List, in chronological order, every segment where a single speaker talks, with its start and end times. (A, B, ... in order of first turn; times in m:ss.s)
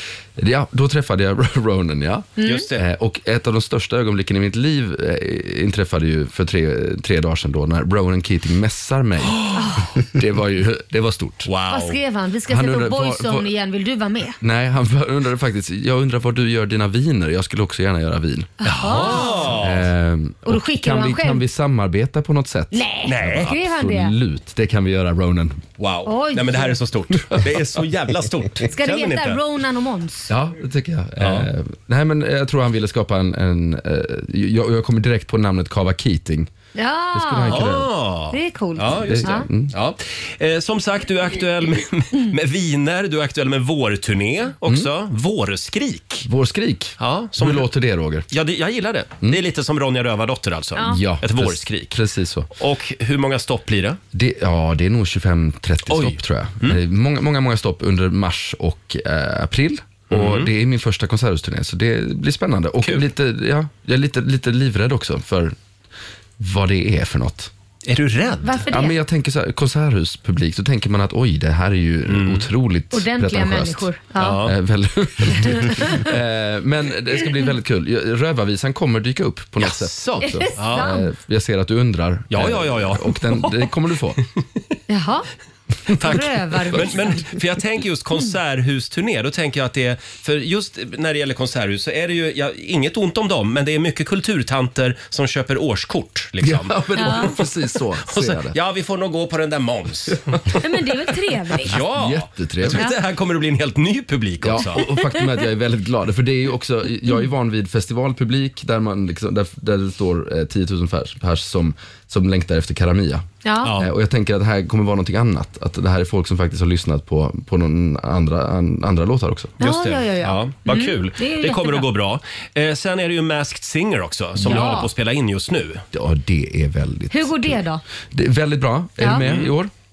0:00.4-0:09.5 A
0:02.4-0:02.7 B
0:02.4-0:02.8 C
0:09.3-0:09.6 C
0:09.5-0:09.9 B
0:10.0-0:11.5 A
0:11.4-0:12.0 C
0:11.7-0:14.4 B
0:12.5-0:13.5 A
0:14.4-0:25.7 A
0:18.6-0:19.5 B
0:18.6-0:19.9 C
0:20.4-0:21.4 B
0:22.7-0:24.1 B
0:23.0-0:23.5 C
0:25.8-0:29.4 C
0:26.0-0:26.8 B
0:28.6-0:30.3 B
0:30.3-0:36.5 A
0:31.2-0:31.5 C
0:36.7-0:39.5 B
0:37.1-0:37.9 A
0:37.5-0:46.3 C
0:38.9-0:39.7 A
0:46.2-0:48.3 A
0:47.0-0:47.7 C
0:48.3-0:52.0 C
0:50.8-0:52.5 A
0:52.6-0:54.0 C
0:54.1-1:05.6 A
0:55.9-0:56.8 C
1:00.1-1:00.5 C
1:02.8-1:03.1 C
1:06.4-1:07.5 A
1:07.8-1:08.6 C
1:08.4-1:09.0 B
1:08.7-1:13.9 A
1:12.0-1:12.5 C
1:12.9-1:14.4 B
1:14.2-1:14.5 C
1:14.4-1:24.2 A
1:15.3-1:16.1 B
1:19.6-1:20.9 C
1:20.2-1:21.1 B
1:22.3-1:23.6 C
1:24.9-1:25.3 B
1:25.9-1:27.3 B
1:25.9-1:40.4 C
1:36.4-1:38.6 A
1:37.0-1:37.3 B
1:40.6-1:41.8 B
1:41.6-1:44.9 C
1:41.7-1:42.8 A
1:44.4-1:59.5 A
1:44.7-1:45.1 B
1:53.4-1:53.7 B
1:53.6-1:53.9 C
1:59.6-2:05.8 C
1:59.6-2:01.9 B
2:04.4-2:04.9 A
2:04.4-2:04.9 B
2:05.9-2:09.7 A
2:07.1-2:07.8 B
2:09.0-2:09.2 B
2:09.1-2:09.5 C